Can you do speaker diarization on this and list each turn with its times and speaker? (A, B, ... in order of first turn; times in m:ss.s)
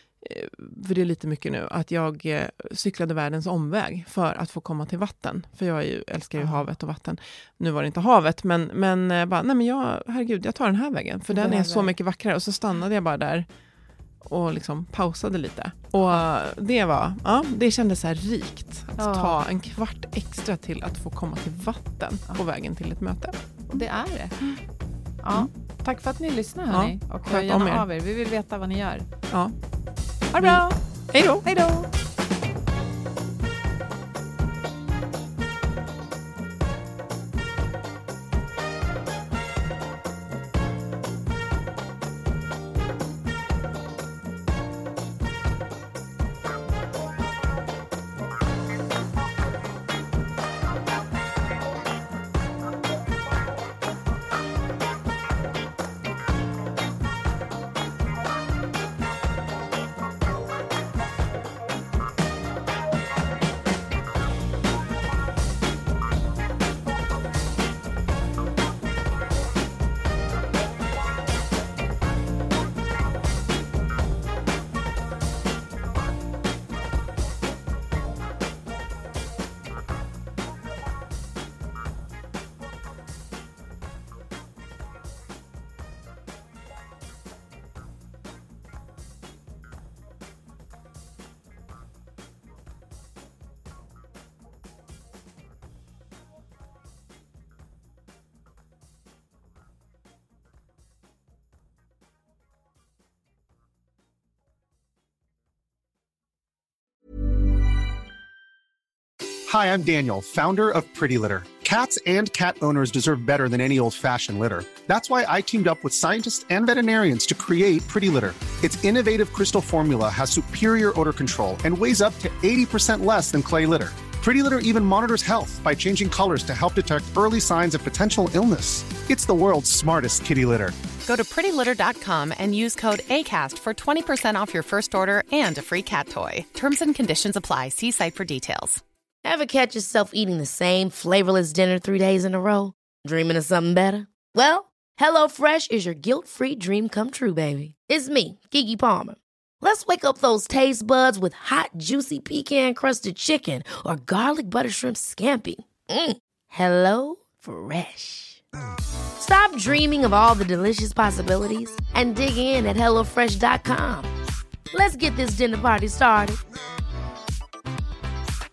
0:00.2-0:13.5 A
0:06.4-0:06.7 B
0:11.3-0:12.0 B
0:14.2-0:23.8 A
0:19.0-0:19.4 B
0:23.7-0:24.5 B
0:25.2-0:29.1 B
0:26.7-0:27.8 A
0:30.3-0:30.8 B
0:30.4-0:31.5 A
0:31.4-0:31.9 B
1:49.5-2:10.9 C
2:10.9-2:18.8 D
2:19.2-2:38.4 E
2:39.2-2:44.1 E
2:44.7-2:46.4 E